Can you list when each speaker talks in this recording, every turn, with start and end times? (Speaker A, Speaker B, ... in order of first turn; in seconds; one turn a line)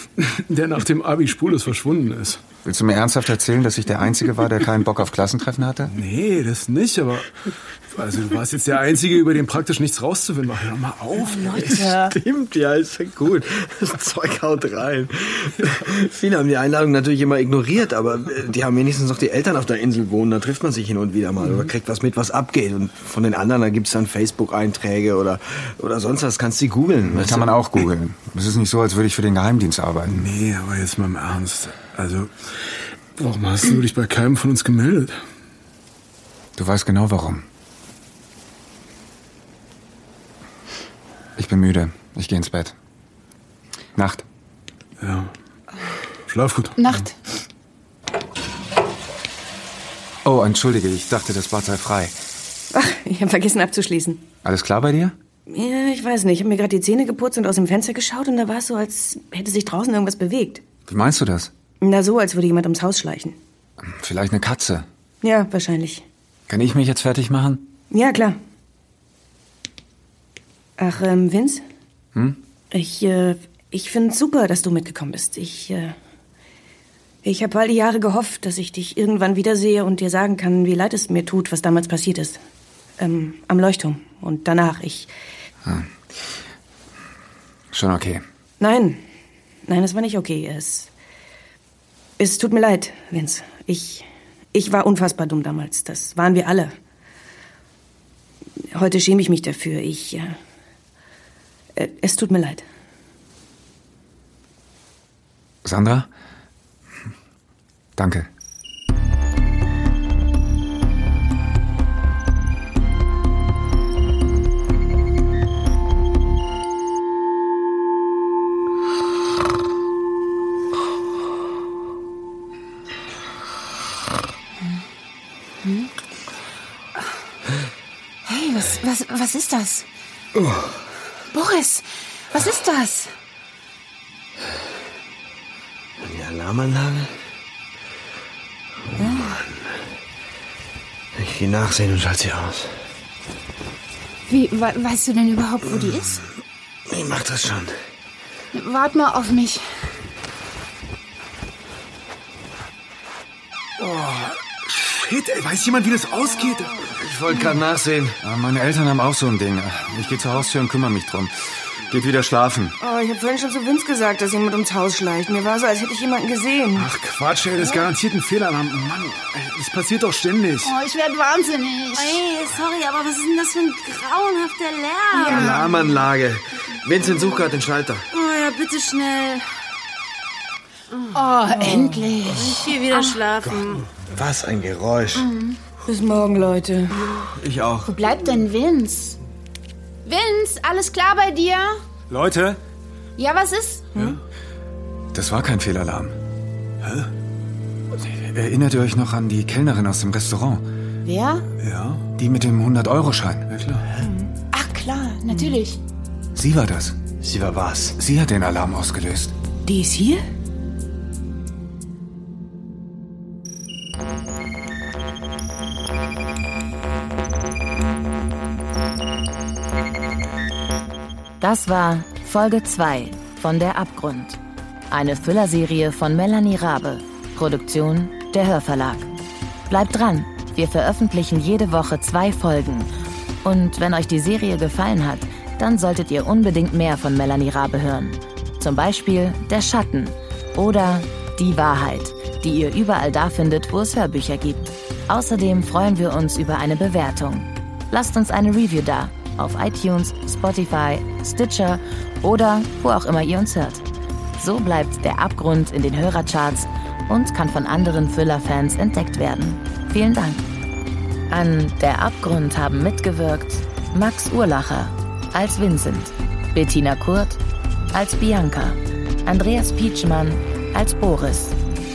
Speaker A: 0.2-2.4
Speaker B: 2.6-5.9
Speaker A: 5.9-7.3
Speaker A: 7.9-12.0
Speaker C: 11.2-12.1
Speaker D: 11.6-27.5
Speaker A: 21.4-21.7
Speaker B: 27.0-30.3
Speaker A: 30.1-32.3
Speaker A: 33.2-35.2
Speaker B: 36.5-37.4
Speaker B: 41.4-42.7
Speaker B: 44.0-44.2
Speaker A: 45.0-45.3
Speaker A: 46.3-46.8
Speaker C: 46.8-47.1
Speaker B: 50.2-52.1
Speaker E: 52.7-54.2
Speaker B: 54.4-55.1
Speaker E: 55.5-60.6
Speaker B: 60.9-61.5
Speaker E: 61.8-63.4
Speaker B: 63.9-64.8
Speaker E: 65.2-66.0
Speaker B: 66.5-67.7
Speaker E: 67.9-68.3
Speaker E: 70.8-71.6
Speaker B: 72.1-72.4
Speaker E: 72.7-75.9
Speaker E: 77.2-82.4
Speaker E: 83.0-85.1
Speaker B: 87.7-88.2
Speaker E: 88.6-89.0
Speaker E: 89.7-90.9
Speaker E: 92.2-96.7
Speaker E: 98.7-100.3
Speaker E: 101.8-102.6
Speaker B: 105.6-106.1
Speaker B: 108.0-108.3
Speaker C: 125.6-125.9
Speaker C: 128.2-129.8
Speaker D: 130.3-130.8
Speaker C: 131.3-133.1
Speaker D: 136.0-137.1
Speaker C: 139.0-139.4
Speaker D: 139.2-139.8
Speaker D: 141.2-142.7
Speaker C: 144.3-146.2
Speaker D: 146.9-147.8
Speaker C: 148.5-149.6
Speaker A: 153.8-156.8
Speaker D: 156.8-158.2
Speaker B: 158.2-162.7
Speaker E: 162.8-166.9
Speaker A: 166.7-170.7
Speaker C: 170.6-172.2
Speaker F: 171.9-175.5
Speaker C: 175.1-175.8
Speaker D: 175.3-178.0
Speaker F: 178.1-179.5
Speaker F: 180.9-183.9
Speaker C: 181.1-183.2
Speaker D: 184.1-185.3
Speaker C: 185.1-185.6
Speaker E: 185.9-186.9
Speaker D: 187.3-187.9
Speaker C: 187.9-189.2
Speaker C: 190.0-191.7
Speaker B: 192.1-192.5
Speaker C: 193.2-193.9
Speaker B: 195.1-196.1
Speaker A: 196.8-197.1
Speaker B: 197.9-200.6
Speaker C: 201.0-201.4
Speaker A: 201.6-202.0
Speaker B: 202.2-203.5
Speaker A: 203.5-203.8
Speaker E: 204.0-204.3
Speaker C: 204.5-205.8
Speaker B: 206.3-207.0
Speaker D: 207.2-207.9
Speaker B: 207.9-209.3
Speaker E: 209.7-210.2
Speaker G: 221.4-224.4
Speaker G: 224.9-229.1
Speaker G: 229.7-232.9
Speaker G: 233.4-253.8
Speaker G: 254.4-260.5
Speaker G: 261.3-267.4
Speaker G: 267.9-271.6